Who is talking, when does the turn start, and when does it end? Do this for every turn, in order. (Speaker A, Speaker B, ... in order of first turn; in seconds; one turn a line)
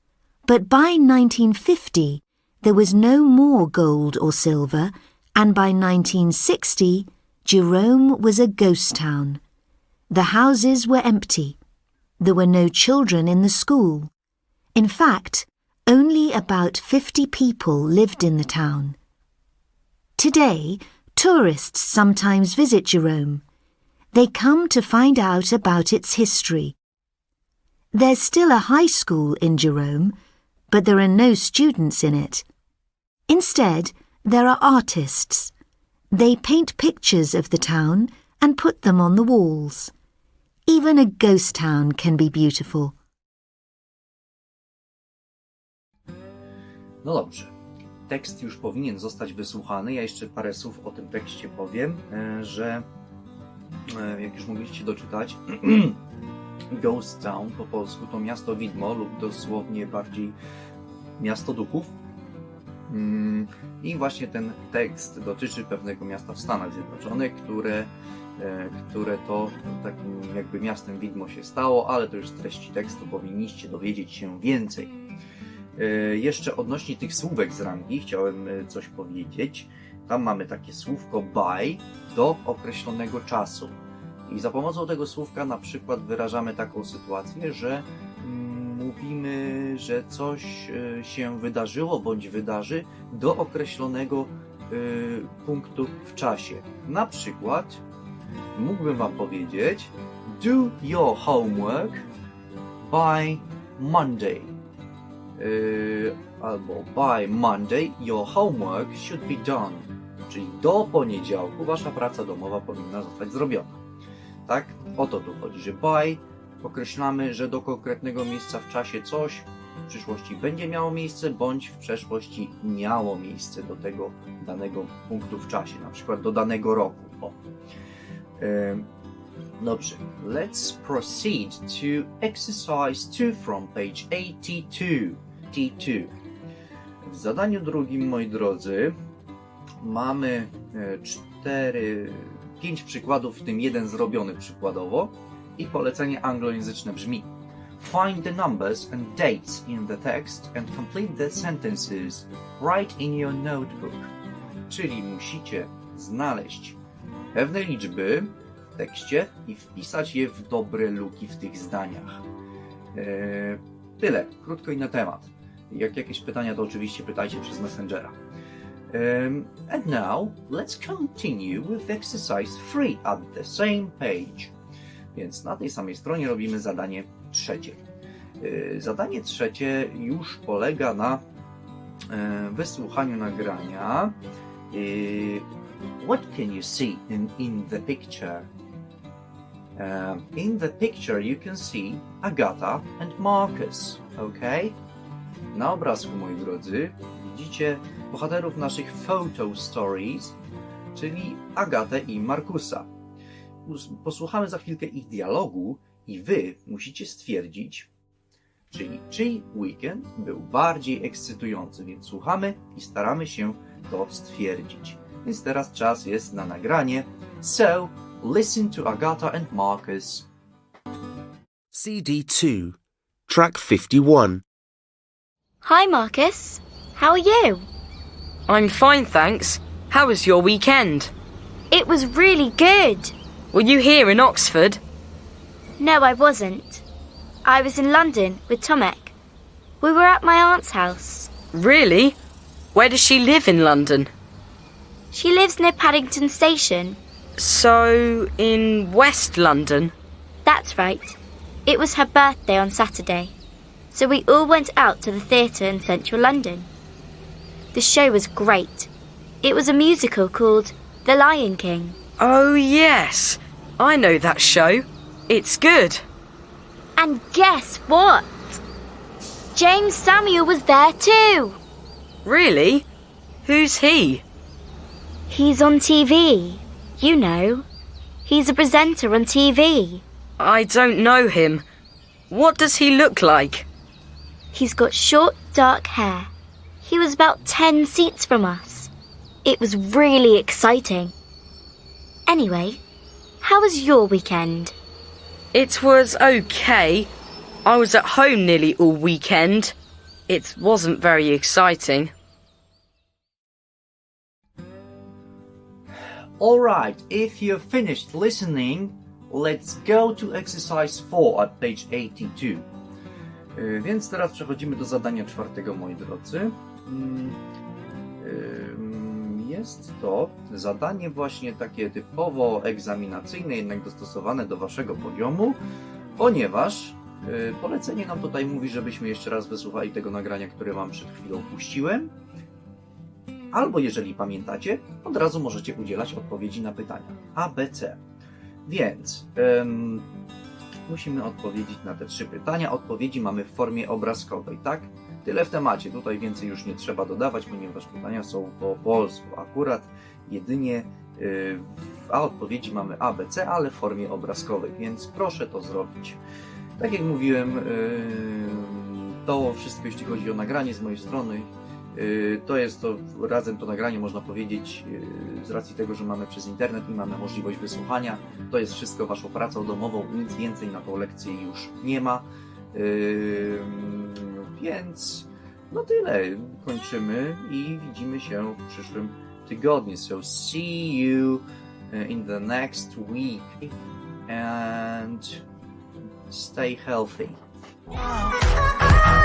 Speaker A: 0.5-9.4
Speaker A: 10.1-11.6
Speaker A: 12.2-14.1
Speaker A: 14.8-18.9
Speaker A: 20.2-23.4
Speaker A: 24.1-26.8
Speaker A: 27.9-30.1
Speaker A: 30.7-32.4
Speaker A: 33.3-35.5
Speaker A: 36.1-39.9
Speaker A: 40.7-42.9
Speaker B: 47.0-47.5
Speaker B: 48.1-52.8
Speaker B: 53.9-56.0
Speaker B: 56.7-60.4
Speaker B: 61.2-61.9
Speaker B: 62.9-74.9
Speaker B: 75.8-83.7
Speaker B: 84.3-97.8
Speaker B: 98.5-102.0
Speaker B: 102.8-104.5
Speaker B: 105.4-113.8
Speaker B: 114.5-127.3
Speaker B: 128.4-128.8
Speaker B: 129.6-136.1
Speaker B: 137.1-138.9
Speaker B: 139.8-147.2
Speaker B: 147.8-154.1
Speaker B: 154.7-156.8
Speaker B: 157.3-162.2
Speaker B: 162.9-168.1
Speaker B: 168.9-174.5
Speaker B: 175.1-177.8
Speaker B: 178.4-181.2
Speaker B: 182.1-184.1
Speaker B: 184.7-185.4
Speaker B: 186.0-188.4
Speaker B: 189.8-194.8
Speaker B: 195.5-200.3
Speaker B: 200.9-202.9
Speaker B: 203.7-207.9
Speaker B: 208.7-220.2
Speaker C: 221.7-224.4
Speaker D: 225.6-227.7
Speaker E: 228.5-231.1
Speaker D: 231.7-233.1
Speaker E: 233.5-234.8
Speaker D: 235.8-236.8
Speaker D: 237.4-239.1
Speaker D: 239.8-241.3
Speaker E: 241.5-242.2
Speaker E: 242.7-244.1
Speaker D: 245.1-247.0
Speaker E: 247.4-249.9
Speaker D: 250.4-253.3
Speaker D: 253.9-256.7
Speaker D: 257.7-258.9
Speaker D: 259.4-262.0
Speaker E: 262.2-266.0
Speaker D: 267.0-268.6
Speaker D: 269.5-271.6
Speaker E: 272.2-272.9
Speaker E: 273.4-274.2
Speaker D: 275.3-277.6
Speaker D: 278.2-280.0
Speaker E: 280.4-281.6
Speaker E: 282.3-283.7
Speaker D: 284.5-286.3
Speaker D: 286.8-288.9
Speaker D: 289.4-291.1
Speaker D: 292.3-292.8
Speaker D: 293.4-294.8
Speaker E: 295.5-297.1
Speaker E: 297.6-299.7
Speaker E: 300.3-302.1
Speaker B: 306.4-312.6
Speaker B: 313.5-317.4
Speaker B: 318.2-325.6
Speaker B: 326.2-332.1
Speaker B: 333.5-338.0
Speaker B: 338.6-340.0
Speaker B: 340.9-356.2
Speaker B: 356.8-381.4
Speaker B: 381.9-383.7
Speaker B: 384.3-385.2
Speaker B: 386.3-387.4